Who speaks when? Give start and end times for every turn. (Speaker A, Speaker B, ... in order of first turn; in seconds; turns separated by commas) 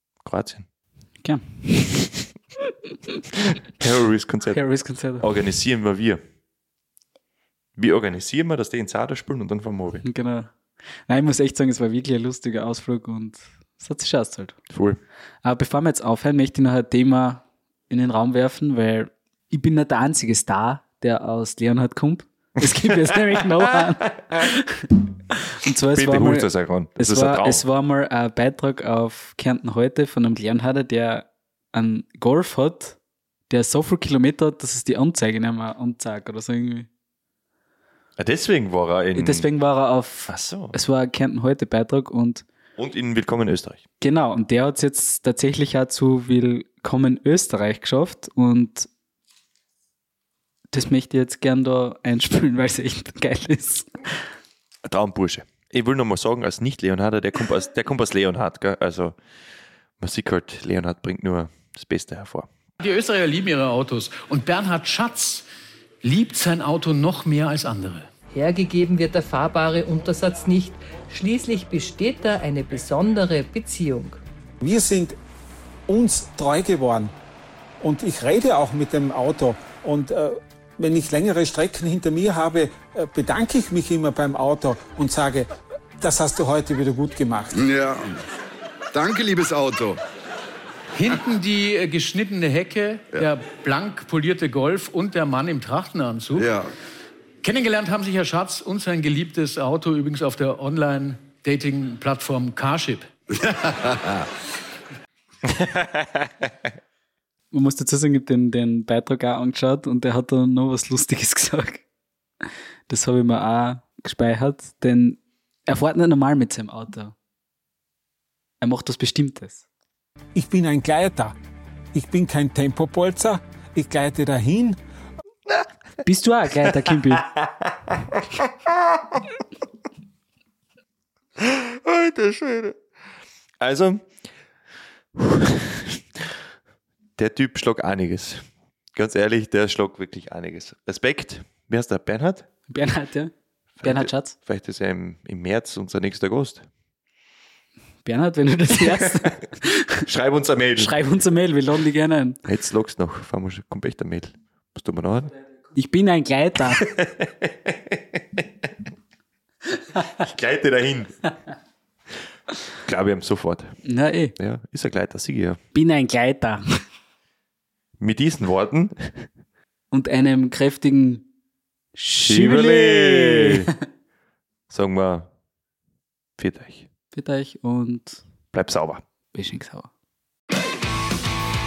Speaker A: 0.2-0.7, Speaker B: 1.2-2.1, Speaker A: 3.8-4.6, Speaker B: 4.5-5.3, Speaker A: 5.2-6.2, Speaker A: 7.8-10.0, Speaker B: 10.0-10.5, Speaker B: 11.1-14.6, Speaker A: 14.7-15.0, Speaker B: 15.4-33.0, Speaker A: 22.8-23.9, Speaker A: 25.9-27.6, Speaker B: 33.5-36.9, Speaker A: 38.2-39.5, Speaker B: 39.1-42.4, Speaker A: 40.3-40.8, Speaker A: 42.8-43.8, Speaker B: 44.0-48.9, Speaker B: 50.7-53.9, Speaker A: 54.8-59.2, Speaker A: 60.0-62.5, Speaker C: 62.8-65.5, Speaker C: 66.0-68.1, Speaker D: 68.3-74.2, Speaker E: 74.6-75.2, Speaker E: 75.9-77.1, Speaker E: 77.8-85.5, Speaker E: 86.0-87.6, Speaker F: 87.5-88.2, Speaker F: 88.9-90.0, Speaker C: 91.0-96.5, Speaker F: 96.4-96.7, Speaker C: 97.4-103.8, Speaker A: 105.5-106.3, Speaker B: 107.5-111.8, Speaker B: 112.4-117.2, Speaker B: 118.6-119.6, Speaker E: 120.3-121.3, Speaker E: 121.9-124.8, Speaker B: 126.0-127.3, Speaker A: 126.7-129.2, Speaker A: 131.4-132.8, Speaker A: 133.6-134.1, Speaker A: 135.2-136.3, Speaker A: 137.2-142.5, Speaker B: 142.7-143.3, Speaker A: 143.8-146.7, Speaker B: 143.8-144.4, Speaker B: 148.1-150.0, Speaker A: 148.7-149.4, Speaker A: 150.1-151.0, Speaker B: 150.8-152.4, Speaker A: 152.4-155.3, Speaker B: 155.8-156.9, Speaker A: 156.7-158.7, Speaker A: 159.9-161.3, Speaker A: 162.7-163.8, Speaker B: 163.8-164.3, Speaker A: 164.4-165.6, Speaker B: 165.7-166.7, Speaker A: 168.0-169.3, Speaker B: 169.9-171.2, Speaker B: 171.9-173.7, Speaker A: 172.2-173.7, Speaker A: 174.7-175.3, Speaker A: 176.4-176.9, Speaker B: 177.1-178.2, Speaker A: 178.5-179.0, Speaker B: 179.3-179.9